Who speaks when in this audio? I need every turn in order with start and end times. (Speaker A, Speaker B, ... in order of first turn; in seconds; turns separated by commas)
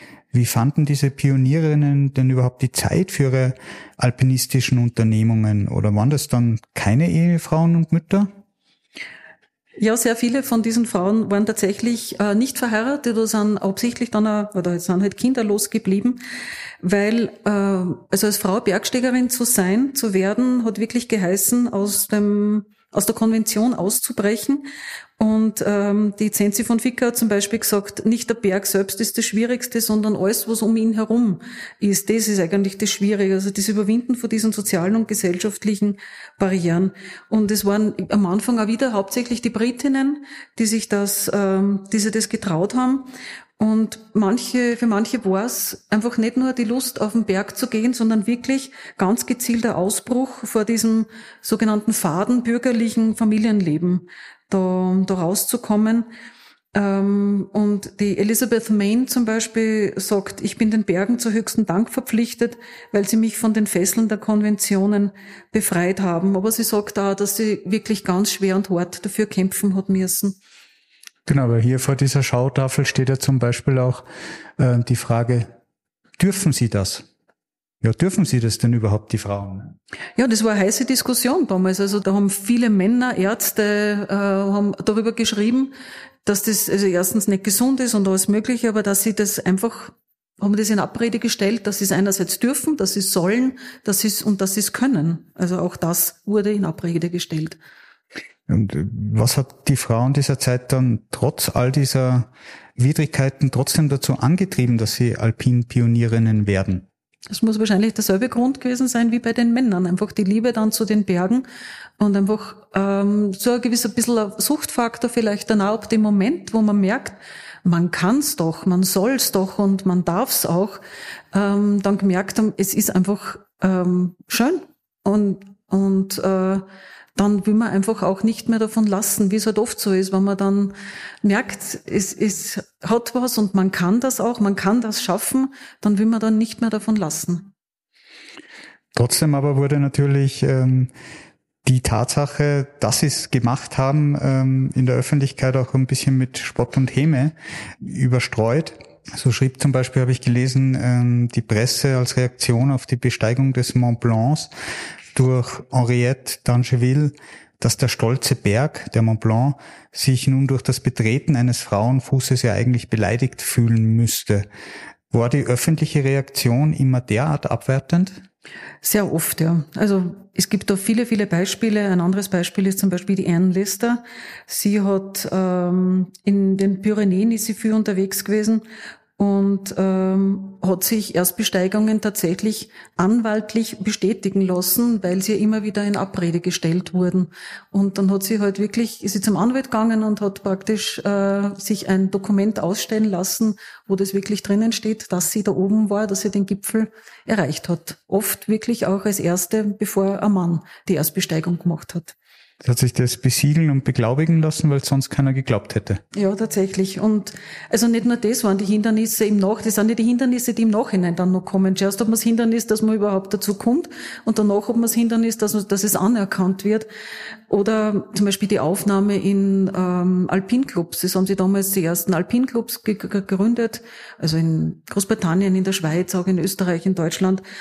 Speaker A: 0.3-8.3, Speaker B: 9.8-16.2, Speaker B: 16.8-56.1, Speaker B: 56.7-70.4, Speaker A: 71.2-74.0, Speaker A: 74.6-75.5, Speaker A: 76.2-77.0, Speaker A: 77.8-79.8, Speaker B: 80.2-85.7, Speaker B: 86.2-97.6, Speaker A: 98.5-106.8, Speaker B: 107.3-111.5, Speaker B: 112.0-120.8, Speaker B: 121.3-126.6, Speaker B: 127.2-137.5, Speaker A: 138.9-140.9, Speaker A: 141.6-154.5, Speaker A: 155.1-164.4, Speaker A: 165.1-168.2, Speaker B: 168.8-178.6, Speaker B: 179.2-202.1, Speaker A: 202.6-206.0, Speaker B: 206.1-216.9, Speaker B: 217.5-227.4